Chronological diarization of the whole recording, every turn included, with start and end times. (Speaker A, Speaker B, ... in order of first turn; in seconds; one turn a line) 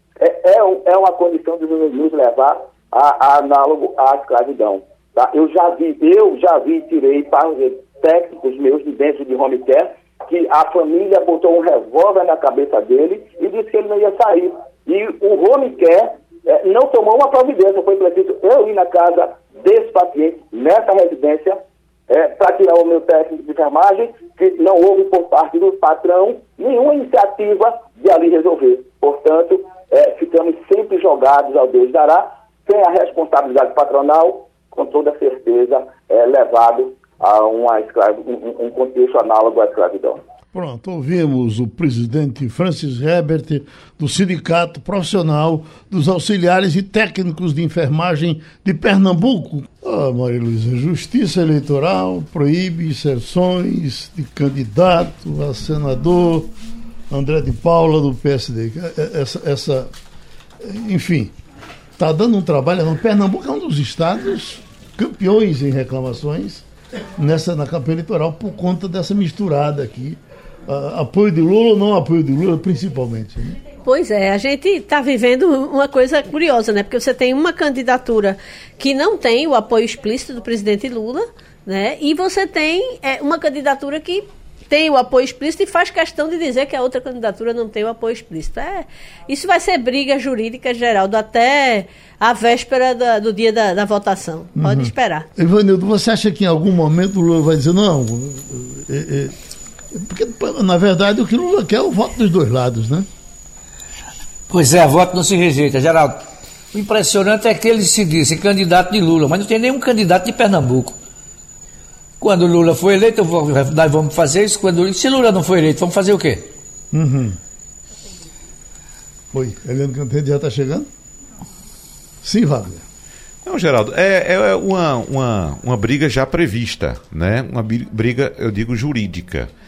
Speaker A: 0.2-21.6
Speaker A: 22.1-40.2
Speaker B: 40.5-56.5
Speaker B: 57.1-59.9
Speaker B: 60.6-61.3
Speaker B: 62.0-66.7
Speaker B: 67.2-73.6
Speaker C: 73.8-95.3
Speaker B: 94.6-99.3
Speaker B: 99.9-103.1
Speaker D: 104.5-111.0
Speaker D: 112.2-116.4
Speaker B: 116.9-117.4
Speaker B: 119.3-120.9
Speaker B: 122.2-122.8
Speaker E: 123.5-129.5